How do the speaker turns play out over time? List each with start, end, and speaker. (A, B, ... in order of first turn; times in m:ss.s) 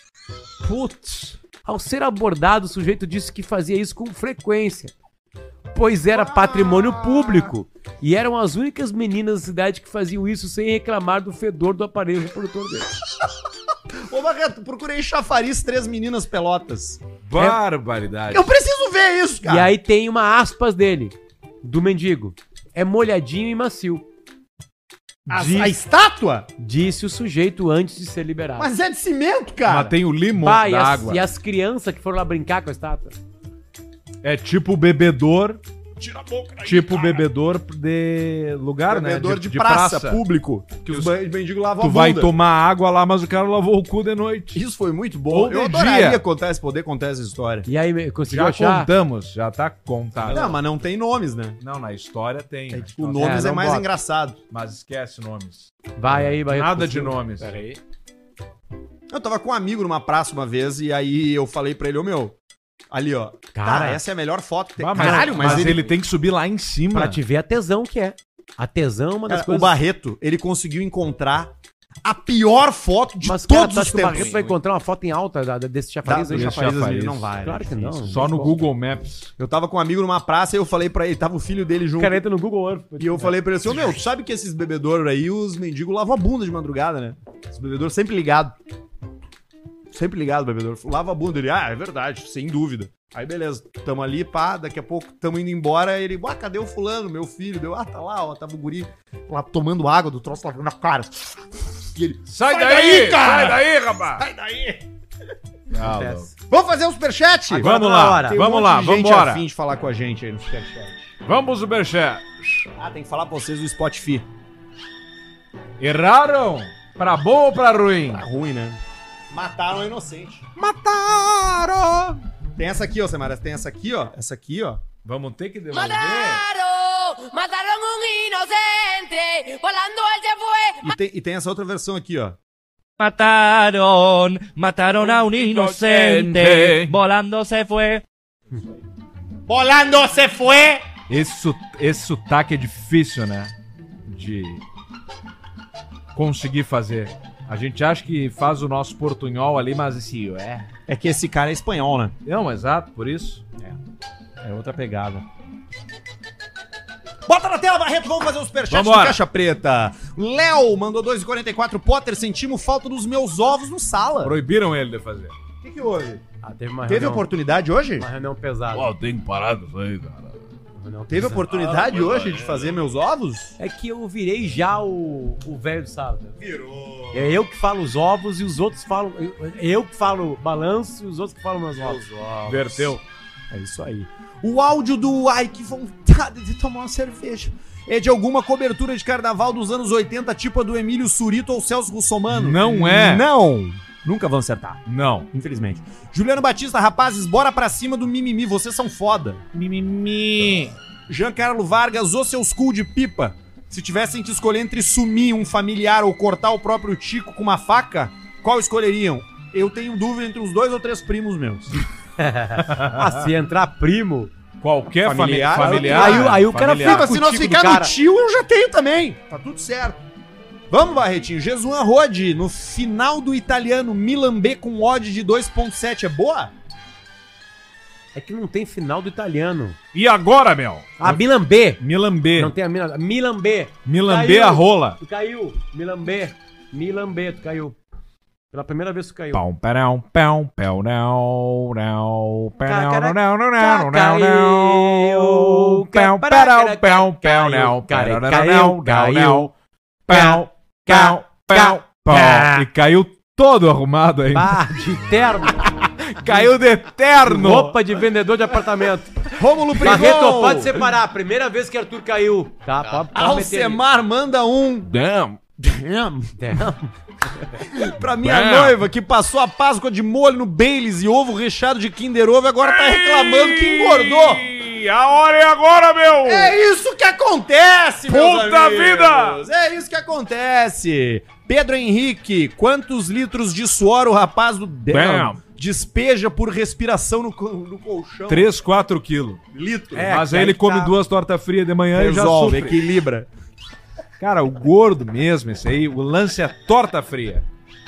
0:00.6-0:01.4 A
0:01.5-0:04.9 B
0:05.7-0:13.0 B
0:06.2-0:07.5 C
0:14.0-0:17.0 C
0:17.2-0:18.5 A
0:18.3-0:19.7 C
0:19.4-0:24.0 B
0:25.3-0:25.8 B
0:25.3-0:26.5 C
0:26.6-0:28.7 B
0:28.6-0:30.0 C
0:29.6-0:31.2 A
0:30.4-0:33.2 B
0:34.2-0:35.6 A
0:36.0-0:37.2 C
0:36.6-0:40.2 A
0:38.9-0:42.3 C
0:40.8-0:41.2 A
0:41.8-0:44.7 A
0:44.5-0:47.7 C
0:45.3-0:46.2 A
0:47.7-0:48.9 B
0:48.3-0:50.6 A
0:50.3-0:51.6 C
0:51.6-0:53.3 A
0:52.7-0:54.4 C
0:53.2-0:53.9 B
0:54.5-0:57.8 A
0:56.0-0:57.5 B
0:59.1-1:02.4 C
1:02.9-1:05.8 C
1:03.6-1:04.0 B
1:04.8-1:07.2 A
1:05.0-1:05.9 B
1:06.9-1:09.8 B
1:09.3-1:11.5 C
1:12.0-1:14.3 C
1:13.2-1:16.8 B
1:14.1-1:14.6 A
1:16.0-1:18.2 C
1:16.3-1:17.3 A
1:17.4-1:18.6 B
1:18.1-1:19.3 A
1:19.4-1:22.2 C
1:22.0-1:23.9 B
1:23.0-1:28.6 C
1:29.9-1:44.8 C
1:42.3-1:44.2 A
1:45.7-1:46.3 A
1:45.8-1:46.3 B
1:46.5-1:47.8 C
1:47.5-1:49.4 A
1:47.5-1:48.4 B
1:48.3-1:51.1 C
1:51.2-1:52.7 A
1:52.8-1:54.3 C
1:55.8-1:58.2 A
1:58.1-1:58.8 C
1:59.3-2:00.6 C
2:00.6-2:02.2 A
2:02.6-2:04.8 C
2:05.0-2:06.4 A
2:05.7-2:11.0 D
2:10.8-2:12.4 C
2:13.0-2:18.0 E
2:15.0-2:17.0 A
2:19.5-2:20.8 C
2:21.1-2:23.5 A
2:24.1-2:24.6 A
2:26.1-2:30.7 A
2:30.9-2:32.2 C
2:32.2-2:33.4 A
2:34.4-2:35.2 C
2:37.3-2:44.4 C
2:38.7-2:39.2 A
2:44.2-2:45.4 A
2:45.6-2:46.2 C
2:46.4-2:47.3 B
2:46.9-2:48.1 C
2:48.0-2:48.9 B
2:48.7-2:50.4 A
2:50.8-2:51.5 B
2:51.1-2:53.6 C
2:51.5-2:52.8 A
2:53.6-2:56.4 B
2:56.4-2:57.3 C
2:57.1-3:02.0 B
3:01.8-3:03.0 C
3:02.4-3:03.0 A
3:03.5-3:19.4 C
3:12.3-3:13.3 A
3:14.9-3:15.3 A
3:19.5-3:20.8 A
3:21.1-3:31.9 C
3:32.2-3:34.3 B
3:32.6-3:33.3 A
3:34.6-3:37.1 A
3:35.0-3:40.0 C
3:35.6-3:38.0 B
3:40.7-3:46.5 C
3:48.2-3:49.8 B
3:49.9-3:51.2 A
3:51.0-3:51.8 B
3:51.8-3:52.5 A
3:52.4-3:57.8 B
3:53.9-3:55.0 A
3:58.5-3:59.4 B
3:59.3-4:09.5 A
4:02.6-4:09.5 B
4:10.1-4:14.6 A
4:10.1-4:12.7 B
4:14.3-4:15.9 B
4:16.1-4:17.8 A
4:17.2-4:23.8 B
4:19.3-4:20.8 C
4:19.8-4:20.4 A
4:23.1-4:24.9 C
4:24.9-4:25.4 A
4:25.6-4:26.3 C
4:26.4-4:27.6 B
4:27.6-4:34.5 C
4:28.2-4:28.8 A
4:32.6-4:36.6 A
4:36.2-4:48.5 C
4:38.1-4:39.4 A
4:44.9-4:45.4 A
4:48.3-4:49.4 A
4:49.5-4:50.2 C
4:50.0-4:50.9 B
4:50.0-4:52.8 A
4:51.9-4:53.3 C
4:54.2-4:57.5 A